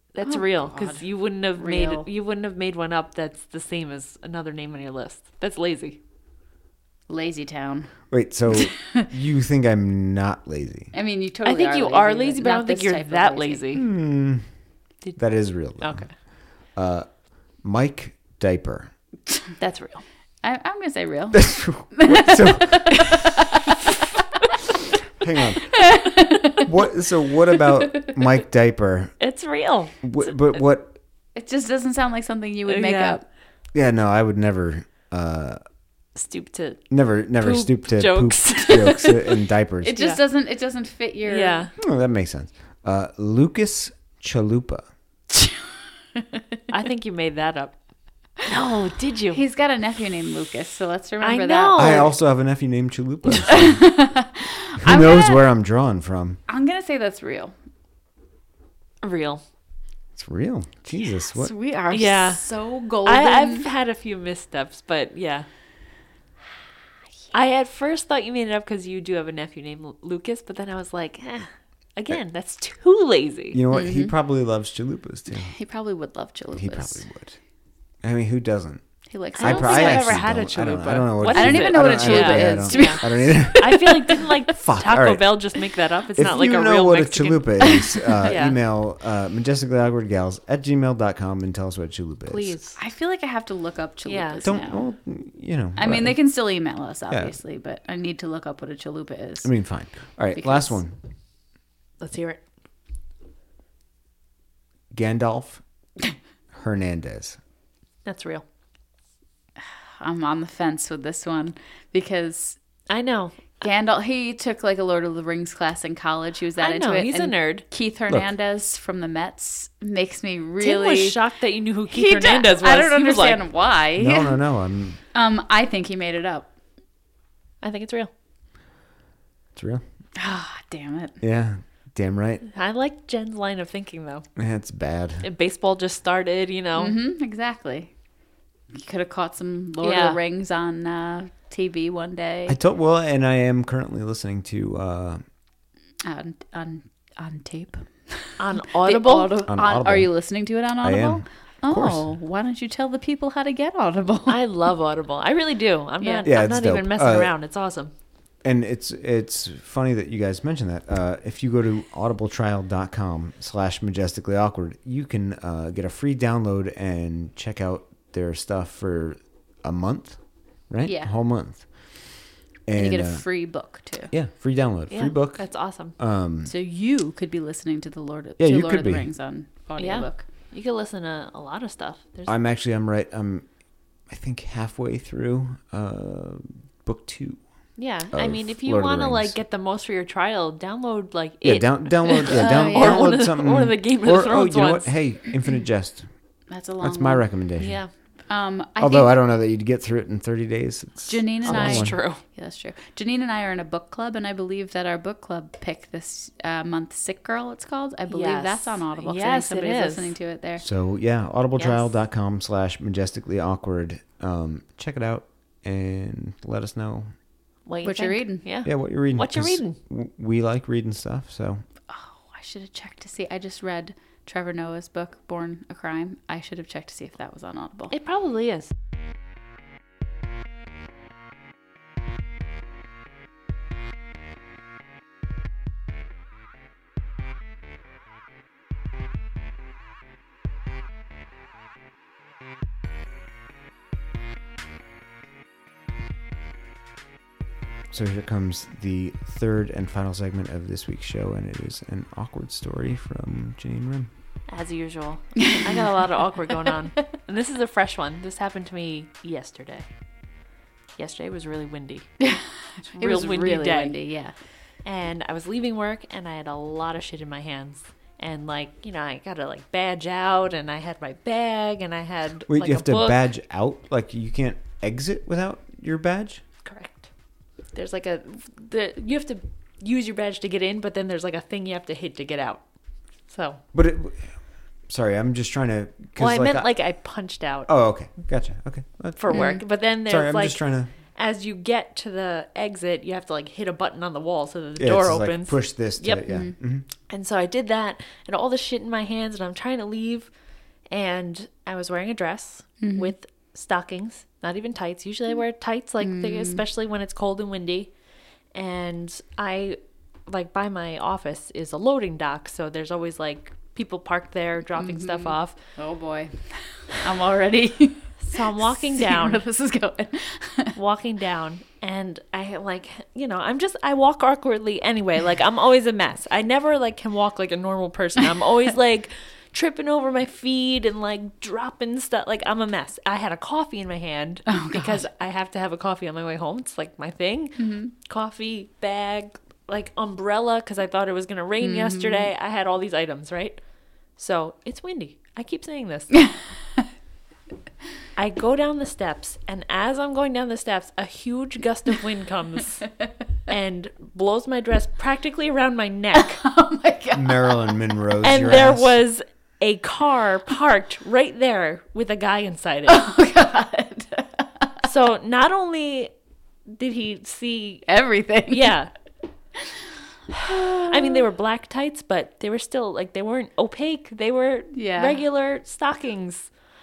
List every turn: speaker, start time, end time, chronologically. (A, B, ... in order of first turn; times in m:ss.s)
0:00.1-0:06.0 A
0:00.3-0:02.1 B
0:07.1-0:09.1 B
0:08.1-0:10.9 C
0:10.9-0:13.8 B
0:11.4-0:13.8 A
0:13.7-0:14.4 C
0:15.2-0:16.1 C
0:15.8-0:16.1 A
0:16.8-0:18.9 C
0:19.6-0:20.0 A
0:20.4-0:23.8 B
0:21.3-0:23.2 C
0:25.2-0:25.8 C
0:25.7-0:26.7 B
0:26.6-0:29.2 C
0:29.2-0:30.0 A
0:30.0-0:31.0 C
0:31.4-0:33.2 B
0:32.7-0:33.2 A
0:33.8-0:35.6 C
0:36.2-0:36.9 A
0:36.9-0:40.1 C
0:37.4-0:39.4 A
0:39.8-0:41.7 B
0:41.3-0:41.7 A
0:41.8-0:44.8 C
0:46.7-0:47.8 A
0:48.4-0:49.4 A
0:49.3-0:52.1 B
0:51.2-0:52.1 A
0:51.8-0:53.8 C
0:53.3-0:55.5 B
0:54.8-0:56.4 C
0:56.5-0:57.5 B
0:59.0-0:59.4 A
1:00.2-1:01.5 C
1:01.1-1:03.7 B
1:01.9-1:02.4 A
1:03.0-1:05.5 A
1:07.3-1:13.6 A
1:13.5-1:15.5 C
1:13.7-1:14.1 B
1:15.3-1:17.1 B
1:16.6-1:17.4 C
1:18.0-1:18.8 C
1:19.1-1:20.3 B
1:19.3-1:27.6 A
1:19.4-1:25.4 C
1:21.2-1:23.6 B
1:26.2-1:32.6 C
1:27.6-1:28.0 B
1:28.2-1:28.6 A
1:32.3-1:32.8 A
1:32.8-1:34.8 B
1:34.0-1:34.4 A
1:34.4-1:36.2 C
1:35.8-1:39.5 B
1:39.4-1:41.0 C
1:40.4-1:40.8 B
1:42.0-1:42.4 A
1:44.9-1:45.6 C
1:46.5-1:47.4 C
1:48.0-1:48.4 A
1:50.0-1:52.6 B
1:52.9-1:53.6 A
1:53.6-2:01.2 B
1:56.6-1:57.6 A
2:00.6-2:03.4 A
2:01.9-2:04.4 B
2:04.0-2:05.0 C
2:05.1-2:06.5 B
2:07.6-2:08.1 A
2:09.6-2:09.8 C
2:10.2-2:11.2 B
2:11.2-2:12.4 C
2:12.5-2:14.3 A
2:14.4-2:15.3 C
2:15.2-2:17.0 A
2:16.8-2:17.9 B
2:18.7-2:22.6 B
2:19.8-2:20.2 A
2:22.5-2:25.2 C
2:26.0-2:34.4 B
2:28.4-2:29.4 A
2:29.5-2:30.1 C
2:30.8-2:32.1 C
2:34.3-2:37.9 A
2:36.0-2:36.3 B
2:36.2-2:37.3 C
2:38.4-2:51.7 C
2:50.8-2:51.1 B
2:52.7-2:53.2 C
2:52.8-2:54.1 B
2:54.1-2:55.4 C
2:54.9-2:56.0 A
2:56.0-2:56.5 C
2:56.5-3:00.2 B
2:58.4-2:59.1 C
2:59.8-3:02.4 A
3:02.3-3:03.5 C
3:04.1-3:07.4 C
3:07.8-3:14.9 A
3:08.1-3:09.4 C
3:11.4-3:16.1 C
3:12.3-3:13.3 B
3:16.5-3:17.3 B
3:16.8-3:17.8 C
3:17.6-3:17.9 A
3:18.3-3:19.2 B
3:18.8-3:22.0 C
3:21.1-3:30.6 B
3:21.4-3:22.2 A
3:28.1-3:30.1 A
3:30.6-3:37.1 C
3:31.6-3:31.8 A
3:37.7-3:39.8 A
3:37.8-3:38.5 B
3:38.6-3:41.6 C
3:41.9-3:47.9 B
3:47.9-3:48.7 A
4:07.9-4:14.1 C
4:14.5-4:19.9 A
4:15.4-4:15.7 B
4:21.0-4:22.1 A
4:22.2-4:24.3 B
4:22.9-4:24.0 A
4:24.8-4:33.2 A
4:32.5-4:36.4 C
4:36.6-4:37.1 A
4:37.7-4:42.6 A
4:43.3-4:43.6 A
4:43.7-4:44.2 C
4:44.9-4:46.7 C
4:46.2-4:47.7 A
4:47.7-4:50.9 C
4:49.2-4:50.6 A
4:49.3-4:49.6 B
4:51.2-4:56.2 A
4:54.8-4:56.9 C
4:57.1-5:00.3 A
5:00.9-5:07.9 A
5:02.8-5:03.1 B
5:06.0-5:06.6 B
5:08.5-5:15.6 A
5:14.8-5:20.8 B
5:18.2-5:19.4 A
5:20.8-5:43.6 A
5:34.5-5:35.0 B
5:37.6-5:37.9 B
5:41.6-5:42.3 B
5:44.2-5:46.2 A
5:48.2-5:52.9 A
5:53.5-5:56.4 A
5:56.3-5:57.8 B
5:57.1-5:59.0 C
5:58.2-6:03.1 A
6:02.9-6:04.7 B
6:04.8-6:06.1 A
6:06.7-6:07.9 A
6:07.9-6:08.8 B
6:08.5-6:08.9 A
6:10.3-6:11.2 B
6:10.3-6:16.5 A
6:14.7-6:15.2 B